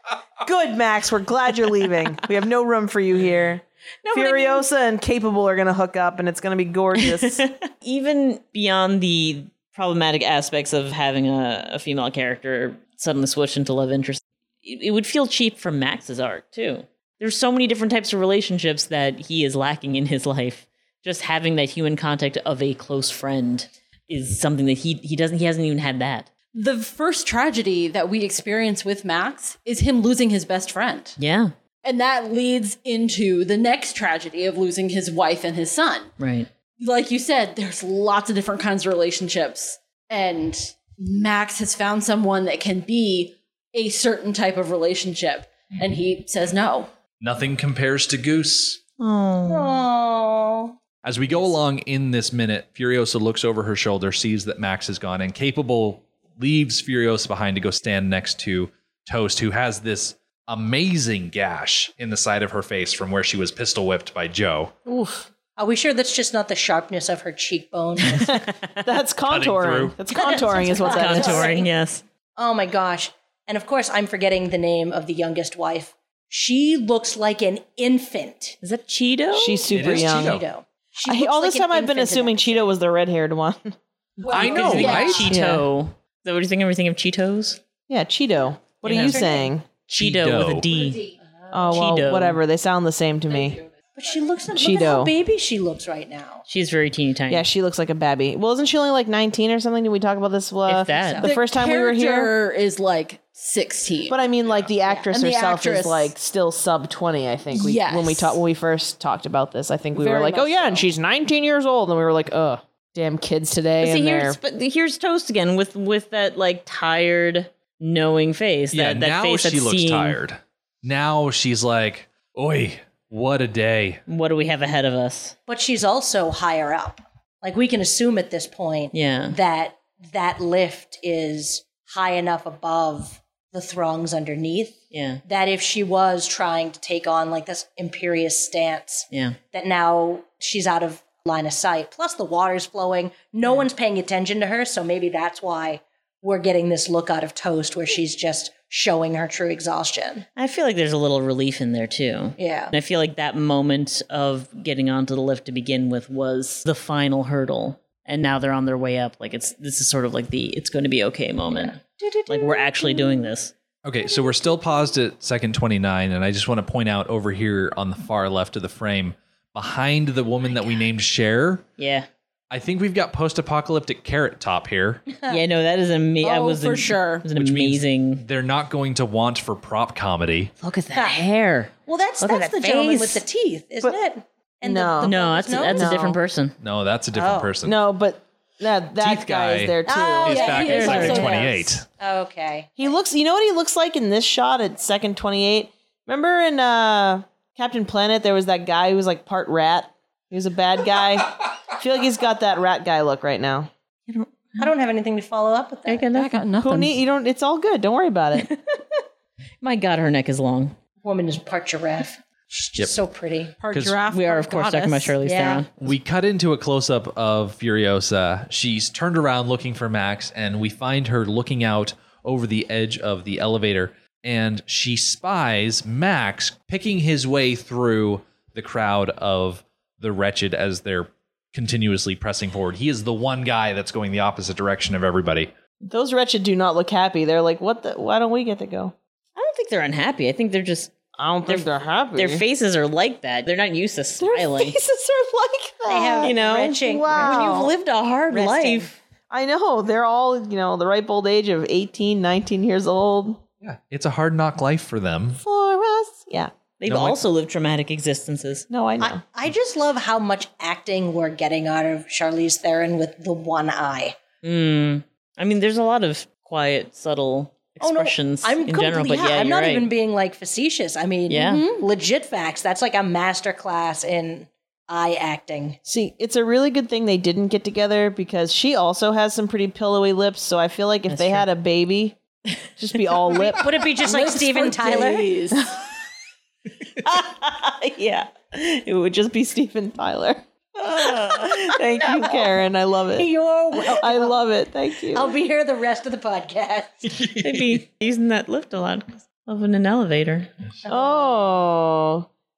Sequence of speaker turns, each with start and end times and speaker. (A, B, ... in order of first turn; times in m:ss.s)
0:00.4-0:07.4 A
0:04.0-0:04.7 B
0:07.0-0:26.3 B
0:26.5-0:31.2 C
0:31.2-0:31.5 B
0:31.8-0:36.1 C
0:36.2-0:36.5 B
0:36.8-0:46.9 C
0:47.2-0:48.8 D
0:49.0-0:49.8 B
0:49.5-0:50.7 E
0:51.0-1:04.7 D
1:05.6-1:08.4 E
1:08.1-1:11.5 A
1:08.1-1:08.8 B
1:09.3-1:10.0 D
1:10.1-1:11.7 E
1:10.8-1:12.0 B
1:12.4-1:18.6 E
1:18.6-1:19.6 B
1:19.3-1:20.4 A
1:19.7-1:22.7 E
1:19.7-1:20.4 D
1:21.0-1:23.8 A
1:24.2-1:25.3 C
1:24.3-1:25.3 D
1:24.3-1:27.6 B
1:25.3-1:25.6 A
1:27.9-1:29.6 A
1:28.8-1:29.3 B
1:28.8-1:29.5 E
1:29.9-1:30.7 D
1:29.9-1:31.0 B
1:30.7-1:31.1 C
1:31.5-1:33.6 A
1:31.7-1:32.4 B
1:33.9-1:36.4 E
1:34.5-1:35.1 A
1:36.5-1:37.5 B
1:37.3-1:42.3 A
1:40.7-1:41.2 B
1:40.9-1:41.3 E
1:41.2-1:44.2 C
1:44.1-1:54.4 A
1:45.1-1:46.1 C
1:47.5-1:48.4 C
1:50.0-1:50.8 C
1:53.8-2:00.2 B
1:58.7-2:04.0 D
2:04.1-2:05.4 B
2:05.5-2:30.2 E
2:08.9-2:09.4 B
2:14.9-2:15.2 B
2:19.1-2:19.4 B
2:30.4-2:43.5 B
2:32.4-2:32.7 E
2:41.5-2:43.3 E
2:43.8-2:51.6 D
2:51.8-2:52.1 B
2:52.5-2:55.0 D
2:55.3-2:58.2 B
2:56.2-2:57.3 C
2:57.4-3:00.5 D
3:00.6-3:03.2 B
3:00.9-3:01.2 E
3:01.8-3:05.9 E
3:04.6-3:06.2 A
3:05.0-3:06.6 B
3:06.6-3:07.8 D
3:07.1-3:07.5 E
3:07.6-3:10.5 A
3:09.0-3:11.8 D
3:09.9-3:13.0 E
3:10.3-3:11.3 C
3:10.6-3:11.3 B
3:12.8-3:23.7 A
3:24.1-3:24.6 B
3:24.6-3:26.1 E
3:25.8-3:26.4 B
3:26.1-3:27.0 C
3:26.6-3:28.5 A
3:28.4-3:28.8 B
3:29.6-3:30.8 B
3:31.0-3:33.6 E
3:33.6-3:35.2 C
3:33.7-3:34.0 D
3:34.1-3:35.9 B
3:35.2-3:35.6 E
3:35.8-3:55.5 D
3:55.8-3:58.9 A
3:59.4-4:00.9 B
4:01.2-4:02.4 A
4:01.4-4:04.8 B
4:04.2-4:07.7 A
4:05.9-4:07.7 E
4:06.2-4:08.9 B
4:08.3-4:08.9 E
4:09.3-4:13.4 A
4:13.6-4:15.4 D
4:15.4-4:16.5 A
4:16.8-4:18.7 B
4:16.8-4:17.2 D
4:18.7-4:19.2 A
4:19.0-4:24.2 E
4:24.4-4:29.9 B
4:27.8-4:35.8 E
4:31.3-4:31.6 B
4:35.8-4:42.2 A
4:41.1-4:41.5 B
4:42.8-4:44.2 A
4:43.5-4:45.4 E
4:44.0-4:45.7 C
4:46.9-4:48.9 B
4:48.9-4:50.4 A
4:50.8-4:51.9 B
4:51.0-4:55.4 A
4:52.0-4:52.5 E
4:53.1-4:54.4 E
4:55.1-4:57.3 E
4:57.2-4:57.6 D
4:57.3-5:00.5 B
5:00.8-5:01.4 E
5:00.9-5:02.3 A